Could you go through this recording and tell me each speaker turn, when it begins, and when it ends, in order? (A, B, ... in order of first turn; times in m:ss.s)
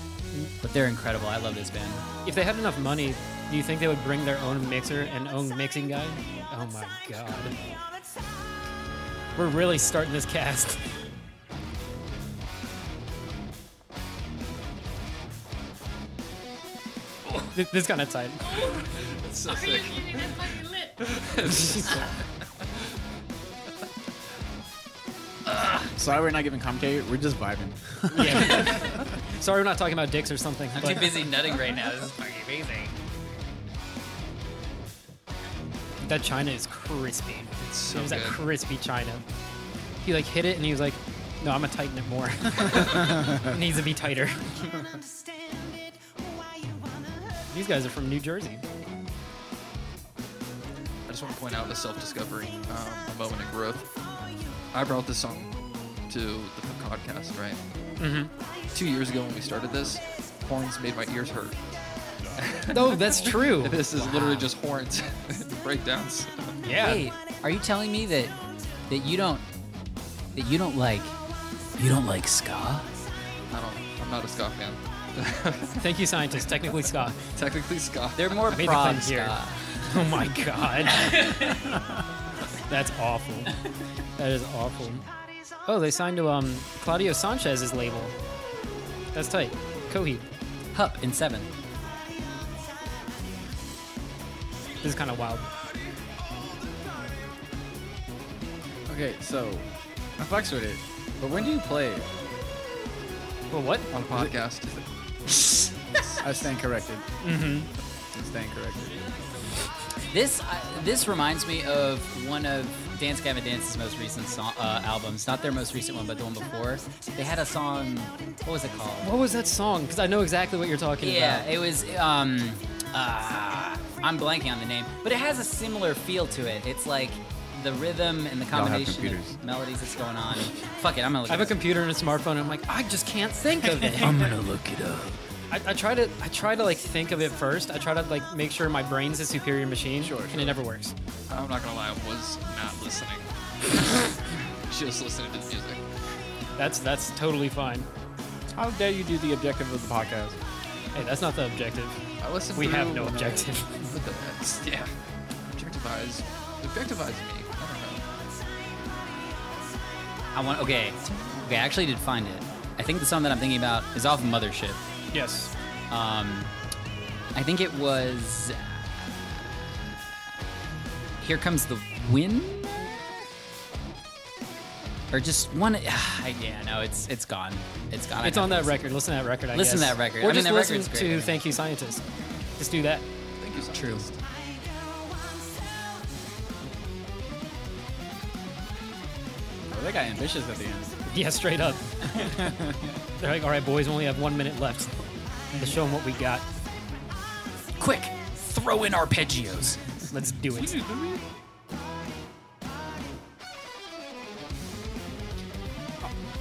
0:00.6-0:02.1 A
0:02.2-0:07.6 B
0:09.4-0:10.8 B
0:17.5-0:18.5 B
0:18.6-0:22.2 C
0:20.5-0:20.9 A
0:21.5-0:21.9 B
0:25.9-0:28.9 D
0:28.1-0:31.2 B
0:30.8-0:33.0 A
0:36.0-0:39.2 B
0:37.6-0:38.4 C
0:40.0-0:44.8 B
0:43.1-0:43.5 D
0:47.5-0:48.6 B
0:51.1-0:53.9 C
0:54.7-0:55.6 C
0:56.1-0:57.6 C
0:58.0-0:58.3 B
0:58.7-1:01.6 C
1:02.4-1:06.6 C
1:02.7-1:03.8 B
1:03.9-1:04.5 A
1:06.6-1:07.1 B
1:06.8-1:08.4 A
1:08.9-1:09.5 A
1:10.3-1:11.2 A
1:11.8-1:12.9 A
1:13.5-1:15.8 C
1:15.8-1:17.2 B
1:17.4-1:18.4 C
1:18.2-1:19.9 A
1:18.5-1:21.1 B
1:20.9-1:21.7 A
1:22.7-1:23.6 B
1:24.2-1:25.1 B
1:25.7-1:28.2 B
1:29.1-1:30.3 B
1:30.7-1:31.5 A
1:34.8-1:35.5 B
1:38.9-1:39.7 D
1:40.2-1:42.1 D
1:43.5-1:43.9 B
1:43.9-1:44.8 C
1:44.1-1:44.4 D
1:45.9-1:46.4 C
1:46.2-1:47.0 D
1:47.2-1:47.7 B
1:48.1-1:49.1 D
1:50.1-1:59.1 A
1:59.0-2:01.5 B
2:01.0-2:11.6 A
2:08.5-2:09.4 D
2:11.3-2:14.2 B
2:14.0-2:15.2 A
2:15.5-2:20.9 B
2:20.0-2:20.6 D
2:21.3-2:25.9 C
2:26.6-2:27.9 B
2:28.6-2:30.4 D
2:31.0-2:32.0 B
2:32.2-2:34.9 C
2:32.5-2:33.9 B
2:35.5-2:38.0 C
2:40.3-2:44.8 A
2:45.1-2:45.5 B
2:45.9-2:46.5 A
2:47.3-2:48.8 A
2:51.2-2:53.0 A
2:55.1-2:58.8 A
2:58.2-3:02.0 B
2:59.5-3:01.4 A
3:02.6-3:03.1 B
3:03.4-3:04.2 C
3:03.7-3:04.1 A
3:09.7-3:10.9 D
3:11.1-3:12.6 B
3:12.3-3:12.9 D
3:13.2-3:15.0 B
3:15.5-3:16.4 B
3:17.8-3:19.8 A
3:20.1-3:20.8 B
3:20.7-3:21.2 D